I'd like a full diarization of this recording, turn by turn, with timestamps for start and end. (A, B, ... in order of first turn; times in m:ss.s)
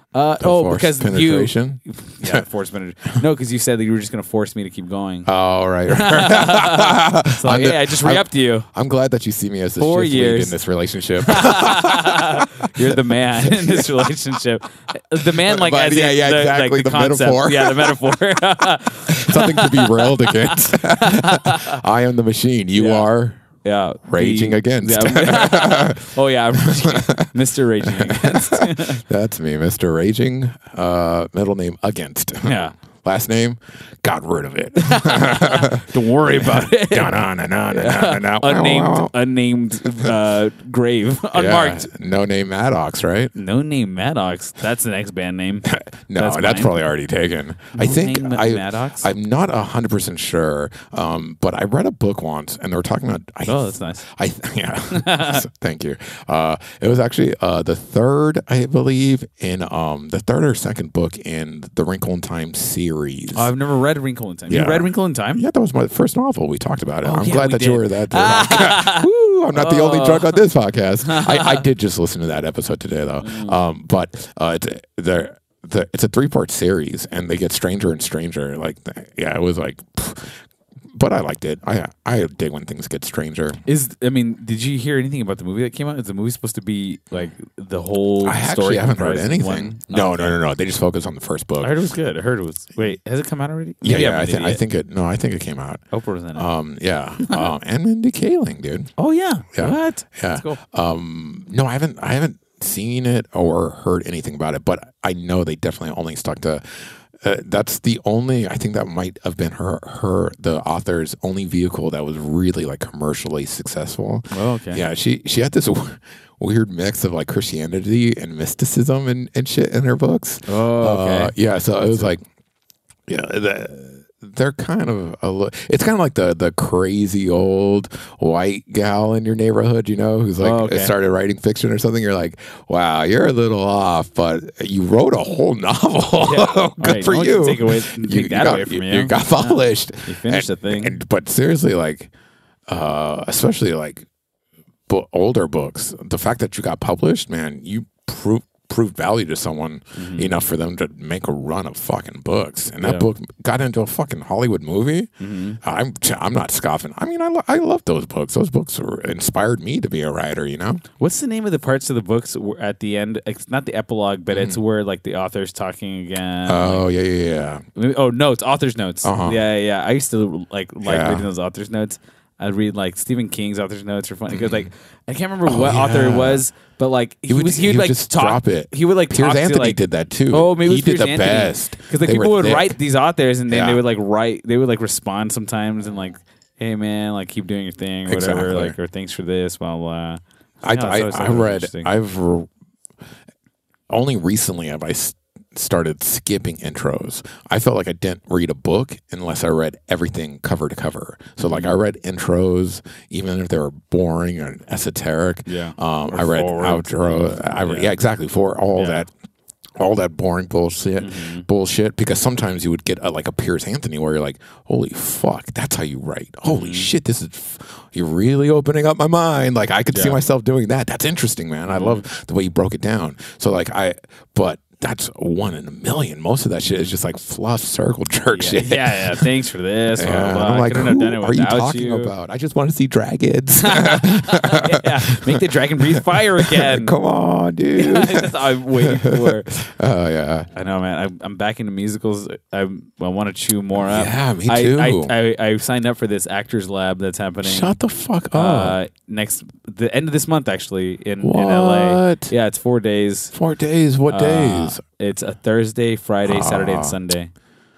0:00.1-0:05.3 A
0:00.4-0:02.4 B
0:05.3-0:14.1 B
0:05.9-0:08.7 A
0:09.8-0:10.6 A
0:11.2-0:21.8 A
0:15.2-0:18.2 B
0:19.1-0:23.4 B
0:22.8-0:23.1 A
0:23.6-0:29.0 A
0:24.1-0:27.3 B
0:27.8-0:39.1 B
0:32.4-0:32.8 A
0:34.8-0:37.2 A
0:37.7-0:41.9 A
0:41.3-0:43.3 B
0:43.4-0:46.8 A
0:45.6-1:03.5 B
0:47.7-0:49.1 A
0:53.5-0:54.0 A
0:54.9-0:55.4 A
1:03.3-1:05.4 A
1:04.5-1:20.4 B
1:07.0-1:10.4 A
1:11.0-1:11.6 A
1:13.2-1:13.6 A
1:20.9-1:23.6 B
1:23.7-1:30.4 A
1:28.2-1:31.8 B
1:31.6-1:34.6 A
1:33.8-1:35.8 B
1:35.9-1:36.5 A
1:36.4-1:38.9 B
1:37.2-1:37.5 A
1:39.0-1:40.6 A
1:39.5-2:02.2 B
1:54.3-1:54.8 A
2:00.5-2:01.3 A
2:03.1-2:22.1 B
2:10.4-2:10.9 A
2:16.2-2:21.0 A
2:22.7-2:24.1 B
2:24.9-2:40.8 B
2:30.0-2:30.3 A
2:32.8-2:33.1 A
2:35.2-2:35.6 A
2:41.0-2:46.9 A
2:44.3-2:44.6 B
2:46.5-2:47.6 B
2:47.8-3:11.9 A
2:49.0-2:49.4 B
2:50.8-2:51.3 B
2:54.3-2:54.7 B
2:55.4-2:56.4 B
2:57.3-3:02.8 B
3:03.5-3:03.8 B
3:08.1-3:08.8 B
3:10.6-3:12.5 B
3:13.9-3:29.1 B
3:21.4-3:21.8 A
3:25.5-3:27.9 A
3:28.8-3:29.0 A
3:29.8-3:49.3 B
3:31.0-3:31.5 A
3:36.5-3:36.9 A
3:39.9-3:40.2 A
3:41.7-3:42.1 A
3:48.3-3:52.1 A
3:50.0-3:55.4 B
3:53.6-3:57.0 A
3:55.9-4:00.5 B
3:57.8-3:59.5 A
4:00.5-4:07.8 A
4:03.8-4:05.1 B
4:07.4-4:08.8 B
4:08.3-4:13.4 A
4:11.2-4:12.3 B
4:13.3-4:14.8 B
4:14.1-4:17.3 A
4:16.2-4:17.0 B